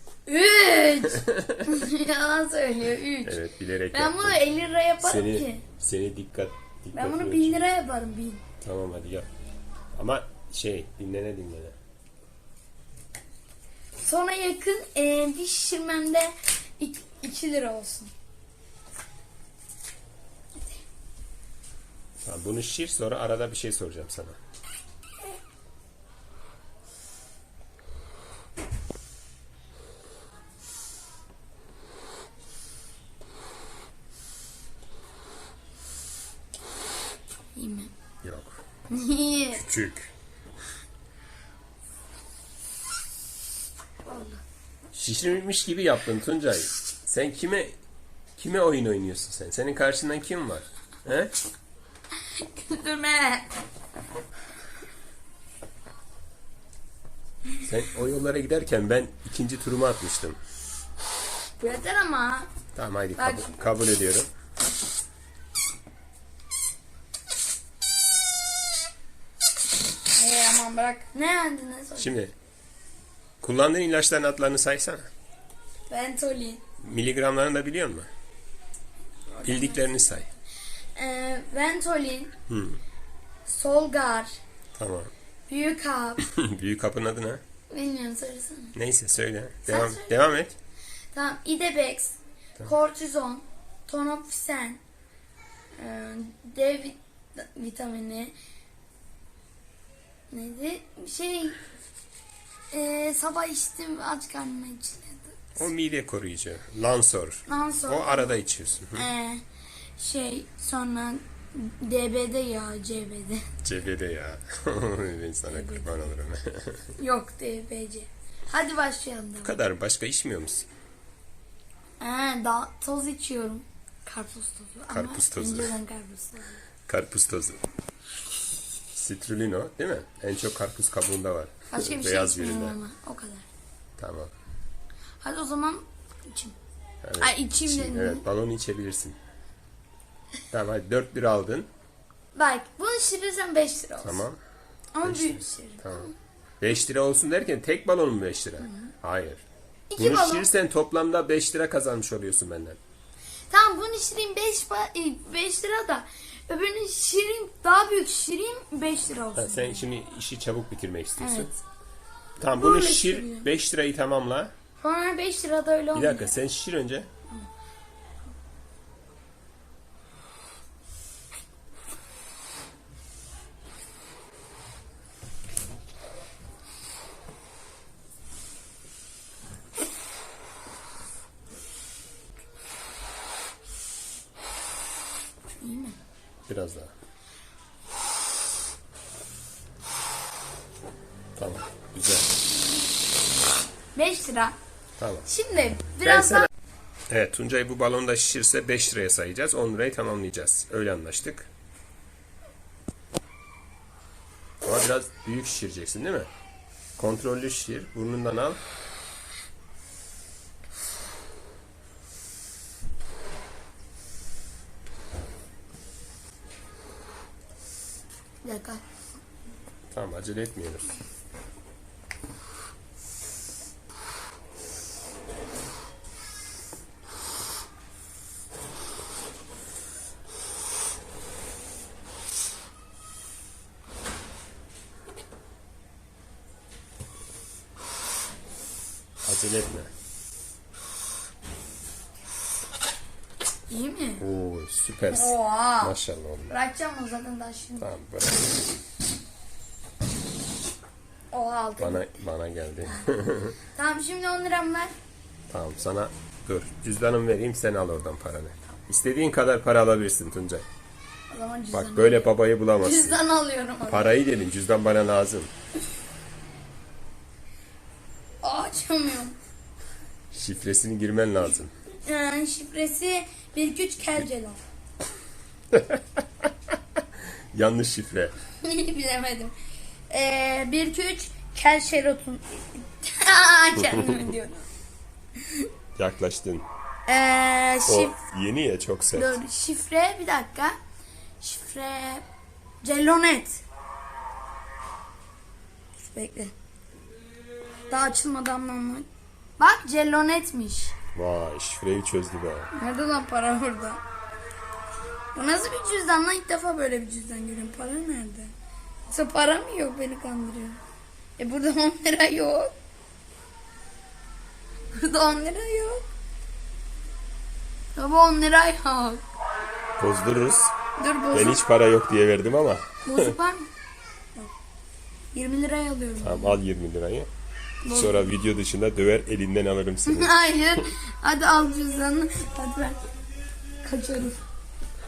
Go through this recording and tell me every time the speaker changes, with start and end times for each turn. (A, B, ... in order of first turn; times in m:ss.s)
0:00.2-0:03.4 A
0:01.1-0:01.8 B
0:03.2-0:04.4 B
0:03.9-0:05.6 A
0:05.0-0:07.6 B
0:06.9-0:08.4 A
0:08.6-0:09.3 B
0:10.0-0:11.8 B
0:14.0-0:18.1 A
0:20.6-0:20.8 A
0:22.2-0:24.4 B
0:37.5-0:37.9 A
0:38.2-0:38.6 B
0:38.9-0:39.6 A
0:39.6-0:40.1 B
0:44.0-0:44.4 A
0:44.9-0:47.8 B
0:48.4-0:51.3 B
0:52.2-0:53.5 A
0:57.6-1:00.4 B
1:01.6-1:02.5 A
1:02.7-1:04.3 B
1:03.2-1:03.5 A
1:10.1-1:12.1 A
1:12.0-1:12.3 B
1:13.4-1:15.1 B
1:15.9-1:16.6 A
1:16.8-1:18.1 B
1:19.3-1:19.9 A
1:19.4-1:20.3 B
1:21.0-1:22.3 A
1:22.5-1:22.8 B
1:23.4-1:24.4 A
1:24.8-1:25.1 B
1:25.5-1:26.2 A
1:26.2-1:27.4 B
1:27.7-1:28.7 A
1:28.7-1:30.6 B
1:29.6-1:30.1 A
1:31.1-1:34.8 A
1:35.8-1:38.3 A
1:40.3-1:41.6 A
1:42.7-1:45.4 A
1:45.6-1:49.1 B
1:47.5-1:48.4 A
1:48.9-1:49.4 A
1:50.0-1:53.4 A
1:53.6-1:56.9 B
1:55.5-1:56.0 A
1:57.0-1:59.5 A
1:59.4-2:00.7 B
2:02.0-2:06.6 A
2:04.9-2:05.8 B
2:06.9-2:07.6 B
2:08.9-2:12.8 B
2:11.7-2:13.5 A
2:14.0-2:14.3 B
2:15.2-2:16.6 A
2:17.0-2:19.2 B
2:17.2-2:18.2 A
2:20.5-2:21.7 B
2:22.3-2:24.2 A
2:24.0-2:24.4 B
2:24.9-2:26.1 A
2:25.0-2:29.4 B
2:28.6-2:28.9 A
2:29.9-2:30.5 A
2:30.0-2:32.8 B
2:33.5-2:39.8 A
2:39.4-2:41.5 B
2:41.2-2:41.6 A
2:42.4-2:44.5 B
2:42.5-2:43.5 A
2:44.8-2:46.3 A
2:45.9-2:47.1 B
3:05.6-3:06.0 A
3:06.5-3:06.9 B
3:11.4-3:12.3 B
3:13.9-3:14.6 A
3:15.0-3:15.3 B
3:15.2-3:16.5 A
3:16.0-3:16.5 B
3:17.1-3:21.5 B
3:24.6-3:26.3 B
3:27.0-3:28.6 B
3:38.4-3:38.8 A
3:39.9-3:40.9 B
3:59.2-3:59.9 B
4:03.7-4:04.2 A
4:04.2-4:06.6 B
4:05.1-4:06.0 A
4:06.5-4:07.9 A
4:07.8-4:08.7 B
4:11.3-4:12.1 A
4:11.8-4:13.6 B
4:13.7-4:14.9 A
4:15.5-4:20.6 B
4:21.3-4:24.1 A
4:21.7-4:23.2 B
4:23.9-4:25.5 B
4:28.4-4:29.4 A
4:30.3-4:31.7 B
4:32.0-4:34.6 A
4:35.7-4:36.0 B
4:37.5-4:38.3 B
4:38.6-4:39.5 A
4:40.1-4:44.7 A
4:45.4-4:45.7 A
4:46.0-4:46.6 B
4:47.0-4:48.1 A
4:47.8-4:49.4 B
4:49.1-4:50.8 A
4:51.4-4:52.2 A
4:52.8-4:53.6 A
4:56.0-4:56.5 A
4:57.9-4:59.1 A
4:59.6-5:00.9 A
5:01.1-5:02.7 B
5:02.7-5:04.0 A
5:05.3-5:08.5 A
5:09.1-5:10.8 A
5:11.4-5:12.7 A
5:14.9-5:16.0 A
5:17.9-5:19.2 A
5:20.0-5:20.7 B
5:21.0-5:21.6 A
5:21.3-5:23.4 B
5:23.0-5:23.7 A
5:25.3-5:26.6 A
5:26.2-5:27.3 B
5:27.8-5:28.3 A
5:27.9-5:30.8 B
5:30.1-5:33.1 A
5:33.8-5:34.4 A